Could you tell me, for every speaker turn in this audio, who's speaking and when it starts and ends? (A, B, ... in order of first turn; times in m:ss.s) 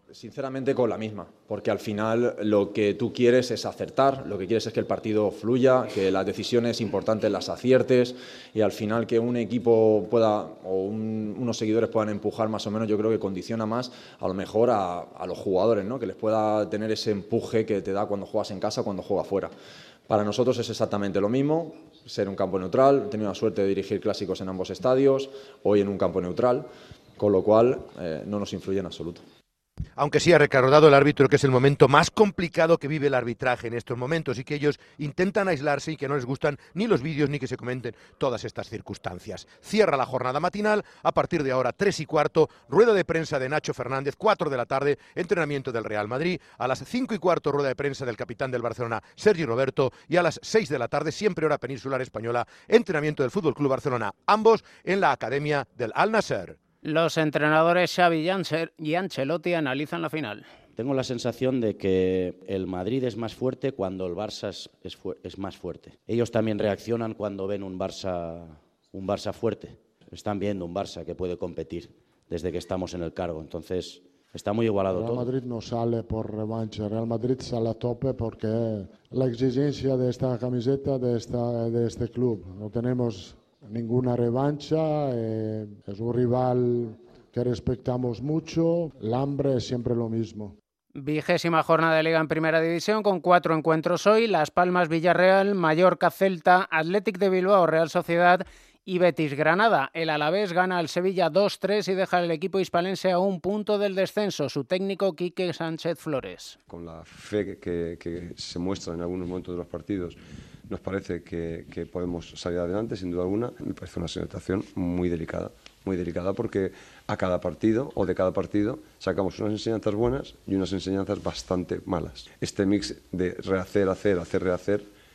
0:00.1-0:19.5 A
0:20.1-0:26.7 A
0:27.2-0:29.2 A
0:30.0-0:56.6 B
0:56.8-1:00.5 C
1:00.8-1:15.3 D
1:15.0-1:30.6 E
1:31.0-1:46.6 C
1:46.7-2:04.8 F